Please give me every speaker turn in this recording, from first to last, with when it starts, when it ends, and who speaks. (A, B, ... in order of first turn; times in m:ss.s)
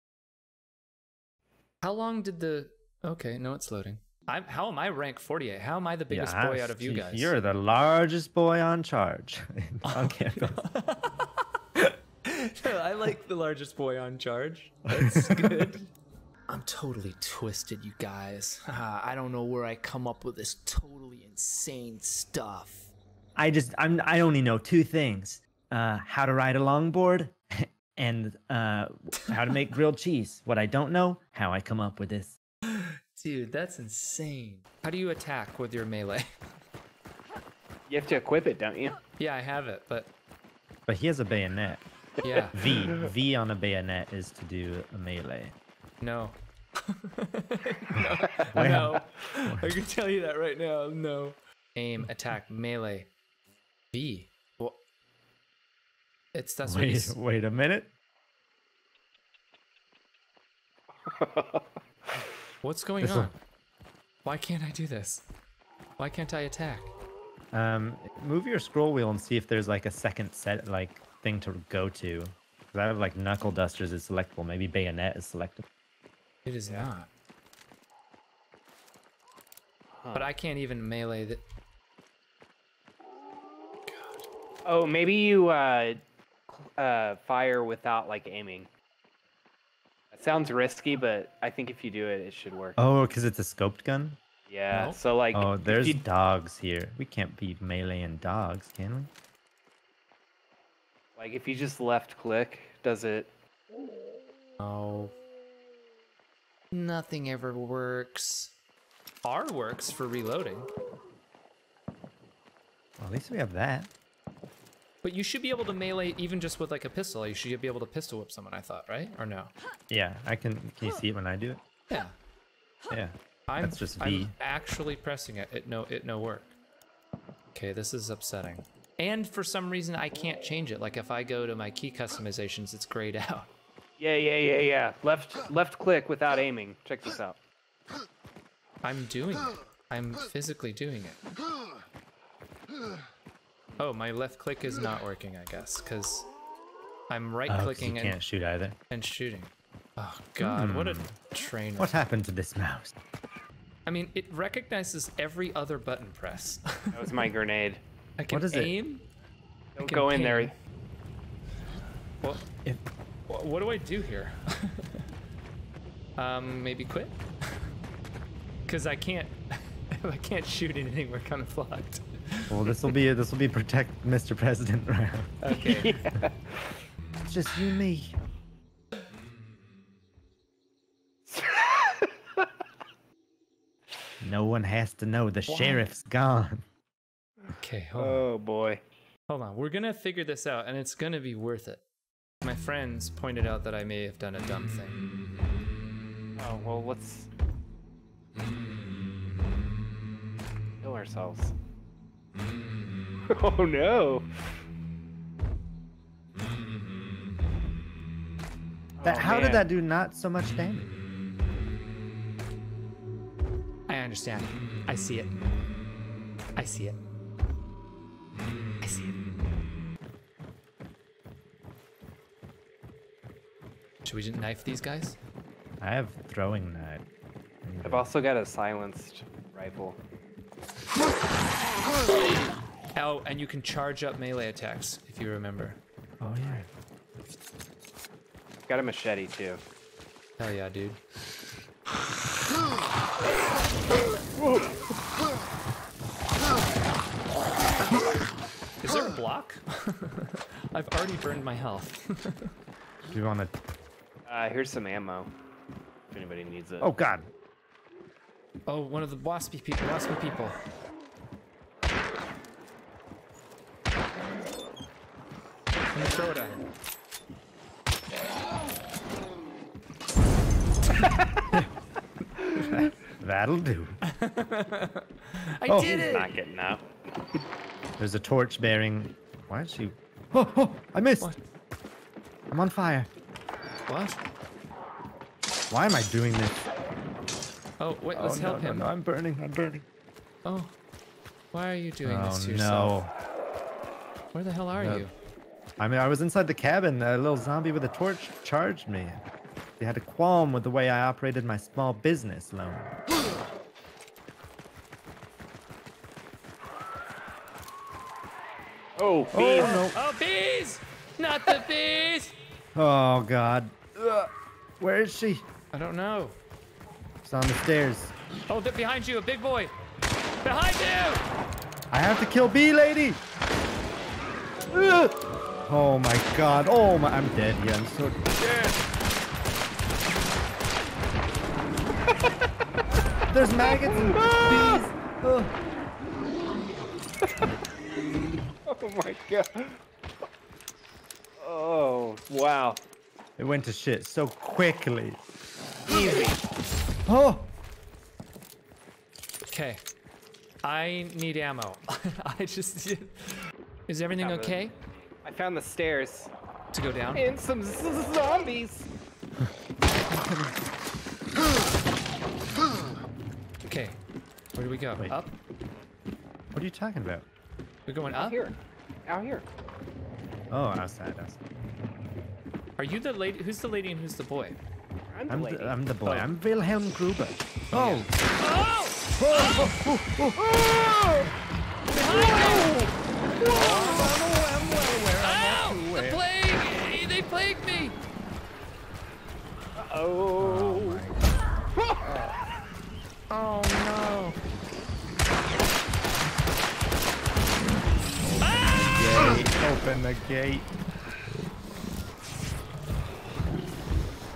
0:01.8-0:07.3 A
0:06.1-0:10.6 B
0:09.8-0:15.9 A
0:14.9-0:15.7 B
0:16.5-0:22.9 A
0:23.4-0:32.4 B
0:32.7-0:36.3 A
0:37.9-0:39.0 C
0:39.2-0:40.1 A
0:40.9-0:41.8 B
0:42.2-0:42.6 A
0:42.5-0:45.5 B
0:46.0-0:46.3 A
0:46.9-0:53.1 A
0:48.5-0:49.7 B
0:53.9-0:54.8 A
0:56.3-0:57.2 A
0:56.6-0:57.9 B
1:01.1-1:01.6 C
1:02.6-1:03.3 A
1:03.0-1:03.3 B
1:04.2-1:05.2 A
1:06.0-1:06.9 A
1:07.5-1:15.6 B
1:16.4-1:17.1 A
1:19.9-1:20.3 C
1:20.1-1:21.4 A
1:23.9-1:24.2 A
1:24.6-1:28.7 C
1:30.1-1:32.8 C
1:32.8-1:34.2 B
1:34.5-1:36.0 C
1:34.7-1:35.0 A
1:35.3-1:39.1 B
1:41.2-1:43.3 C
1:44.6-1:45.1 A
1:46.7-1:48.5 A
1:49.2-1:50.7 A
1:53.0-1:53.9 B
1:55.0-1:59.5 A
1:59.9-2:01.6 B
2:02.9-2:04.3 B
2:03.5-2:06.5 A
2:07.5-2:13.5 A
2:14.0-2:17.4 C
2:18.8-2:21.2 A
2:23.8-2:26.3 A
2:27.1-2:28.2 A
2:27.5-2:28.8 B
2:28.9-2:32.0 A
2:30.4-2:31.1 B
2:31.8-2:32.9 B
2:33.8-2:37.0 A
2:36.9-2:37.8 C
2:38.2-2:39.0 A
2:38.3-2:38.8 B
2:39.8-2:40.5 C
2:39.8-2:40.5 A
2:43.3-2:45.0 A
2:46.2-2:47.2 A
2:48.7-2:49.4 A
2:49.9-2:52.7 A
2:52.5-2:55.4 B
2:55.4-2:56.0 A
2:55.5-2:56.6 C
2:57.2-2:58.2 B
3:01.3-3:02.5 C
3:04.2-3:06.6 B
3:05.5-3:05.8 A
3:07.5-3:08.2 A
3:08.0-3:08.8 C
3:09.3-3:11.8 A
3:12.4-3:15.0 A
3:16.4-3:17.3 C
3:20.8-3:21.5 C
3:23.3-3:24.3 C
3:29.0-3:29.7 C
3:29.0-3:31.0 B
3:33.9-3:35.3 A
3:36.6-3:37.0 A
3:38.8-3:39.2 A
3:44.0-3:45.2 A
3:45.8-3:47.0 B
3:47.6-3:48.1 B
3:47.8-3:50.0 C
3:52.9-3:55.8 A
3:56.2-3:56.7 B
3:56.4-3:56.6 C
3:58.6-3:59.6 C
4:00.4-4:01.0 A
4:04.4-4:04.7 C
4:08.8-4:12.5 A
4:13.1-4:13.5 B
4:14.3-4:15.3 C
4:16.1-4:16.9 C
4:16.8-4:17.3 B
4:18.7-4:20.6 A
4:25.9-4:26.6 A
4:32.6-4:34.0 B
4:34.1-4:36.3 A
4:35.7-4:36.2 B
4:35.8-4:36.8 C
4:38.0-4:41.3 B
4:42.5-4:43.1 B
4:43.9-4:44.2 A
4:45.7-4:46.6 B
4:47.8-4:48.9 A
4:48.1-4:49.8 B
4:50.4-4:50.7 A
4:51.5-4:53.0 A
4:52.0-4:53.1 B
4:54.3-4:55.1 A
4:54.7-4:55.1 B
4:55.8-4:59.2 B
4:59.8-5:03.0 B
5:09.0-5:09.8 C
5:09.3-5:10.0 B
5:09.6-5:12.3 A
5:12.8-5:15.4 B
5:15.7-5:16.4 A
5:17.2-5:18.1 B
5:18.5-5:19.7 A
5:20.4-5:21.2 A
5:21.9-5:23.2 B
5:25.7-5:28.7 B
5:33.3-5:35.5 B
5:33.7-5:34.9 C
5:38.7-5:39.8 C
5:41.4-5:42.8 C
5:43.4-5:45.2 B
5:45.9-5:46.4 C
5:47.1-5:47.5 B
5:49.5-5:49.8 A
5:50.6-5:54.8 A
5:54.2-5:54.6 C
5:55.2-5:56.3 C
5:56.7-5:57.2 A
5:57.1-5:58.9 C
6:00.1-6:00.5 B
6:03.6-6:04.0 A
6:04.6-6:05.4 A
6:06.5-6:07.3 B
6:07.9-6:08.4 A
6:08.1-6:09.4 C
6:10.5-6:11.4 B
6:12.8-6:14.6 A
6:15.1-6:16.0 C
6:15.3-6:18.1 B
6:17.7-6:19.8 A
6:19.2-6:20.5 B
6:20.4-6:21.3 C
6:21.9-6:22.8 A
6:22.1-6:24.1 C
6:23.4-6:26.2 B
6:23.5-6:24.0 A
6:25.2-6:28.0 A
6:29.8-6:31.0 C
6:30.4-6:31.4 B
6:32.1-6:32.4 B
6:33.3-6:34.4 A
6:38.2-6:40.7 B
6:38.4-6:39.0 A